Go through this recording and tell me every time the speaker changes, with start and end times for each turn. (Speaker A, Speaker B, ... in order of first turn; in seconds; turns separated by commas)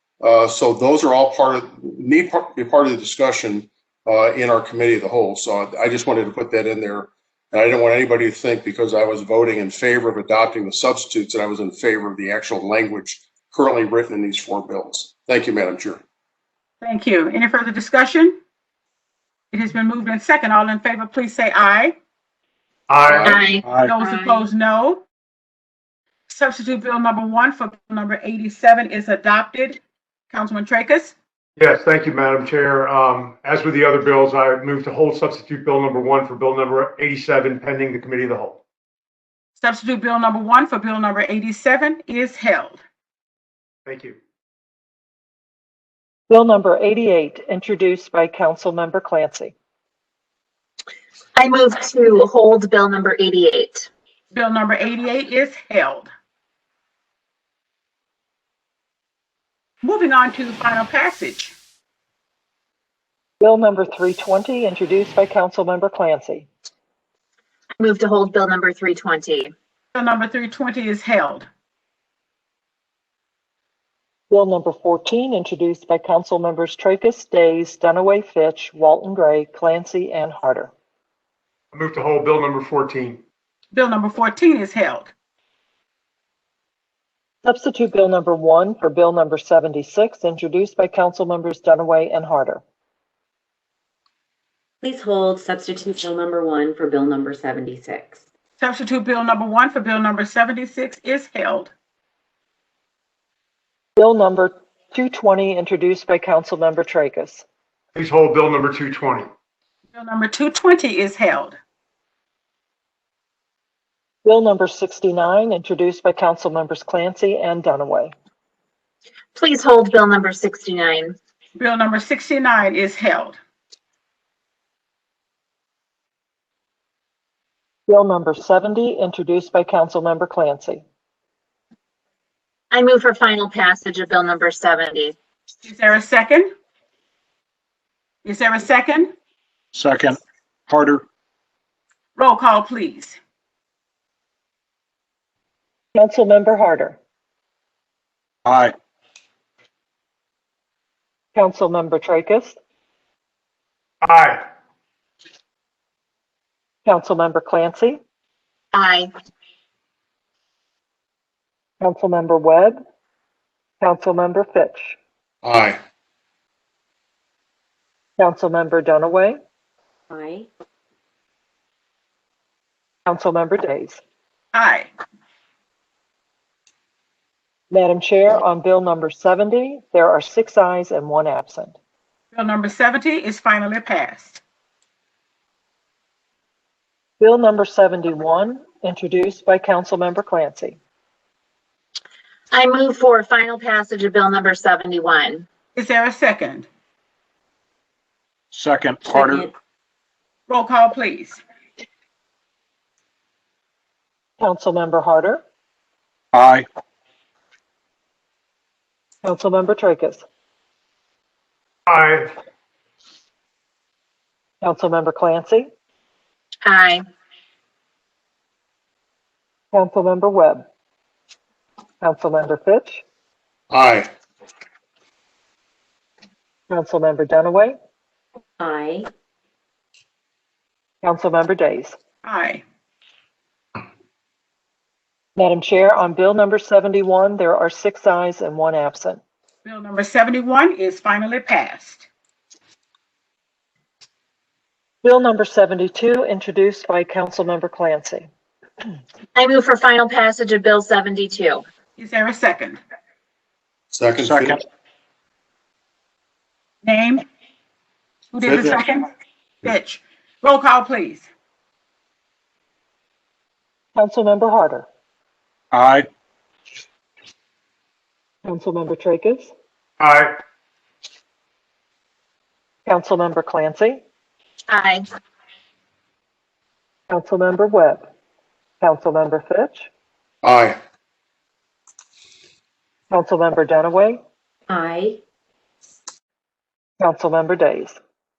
Speaker A: 0.2-16.0, Speaker B: 16.8-18.4, Speaker B: 19.5-22.0, Speaker C: 22.9-23.3, Speaker D: 23.1-23.9, Speaker E: 23.2-24.4, Speaker B: 23.8-25.0, Speaker B: 26.3-31.1, Speaker C: 31.6-38.6, Speaker B: 39.6-42.8, Speaker C: 43.9-44.2, Speaker F: 46.3-49.5, Speaker E: 51.4-53.9, Speaker B: 54.3-56.1, Speaker B: 59.8-61.5, Speaker F: 63.4-66.5, Speaker E: 67.8-69.5, Speaker B: 69.9-71.5, Speaker F: 74.3-80.7, Speaker C: 81.7-83.2, Speaker B: 83.7-85.1, Speaker F: 87.4-92.6, Speaker G: 94.8-98.2, Speaker B: 98.6-101.7, Speaker F: 104.0-107.4, Speaker C: 108.0-109.3, Speaker B: 109.9-111.6, Speaker F: 114.2-118.2, Speaker E: 119.4-121.2, Speaker B: 121.5-123.4, Speaker F: 127.9-130.8, Speaker E: 132.7-135.2, Speaker B: 135.6-136.5, Speaker B: 138.2-139.1, Speaker D: 139.7-141.0, Speaker B: 142.2-143.2, Speaker F: 145.9-147.0, Speaker D: 148.4-148.8, Speaker F: 151.3-152.6, Speaker C: 154.0-154.4, Speaker F: 156.8-158.0, Speaker E: 158.7-159.1, Speaker F: 161.8-162.8, Speaker F: 163.8-165.0, Speaker A: 165.4-165.8, Speaker F: 168.2-169.4, Speaker G: 170.1-170.5, Speaker F: 173.1-174.0, Speaker B: 174.5-174.9, Speaker F: 177.7-181.8, Speaker B: 182.3-184.4, Speaker F: 187.2-190.8, Speaker E: 192.5-195.5, Speaker B: 195.8-196.7, Speaker D: 198.5-199.5, Speaker B: 200.5-201.4, Speaker F: 204.4-205.4, Speaker D: 206.3-206.7, Speaker F: 209.2-210.2, Speaker C: 211.9-212.3, Speaker F: 214.6-215.7, Speaker E: 216.7-217.0, Speaker F: 219.7-220.7, Speaker F: 222.0-223.0, Speaker A: 223.7-224.1, Speaker F: 226.7-227.8, Speaker G: 228.6-229.1, Speaker F: 231.0-232.0, Speaker B: 232.2-232.6, Speaker F: 235.4-239.2, Speaker B: 239.7-242.1, Speaker F: 245.0-248.3, Speaker E: 249.3-251.6, Speaker B: 252.0-252.8, Speaker A: 253.9-254.6, Speaker D: 254.2-254.6, Speaker B: 256.8-257.2, Speaker B: 258.3-259.1, Speaker B: 259.6-261.3, Speaker F: 264.0-264.9, Speaker D: 265.7-266.1, Speaker F: 268.4-269.5, Speaker C: 270.0-270.4, Speaker F: 272.9-274.0, Speaker E: 274.7-275.0, Speaker F: 277.1-278.1, Speaker F: 278.8-279.9, Speaker A: 280.4-280.8, Speaker F: 283.1-284.2, Speaker G: 284.7-285.2, Speaker F: 287.0-288.0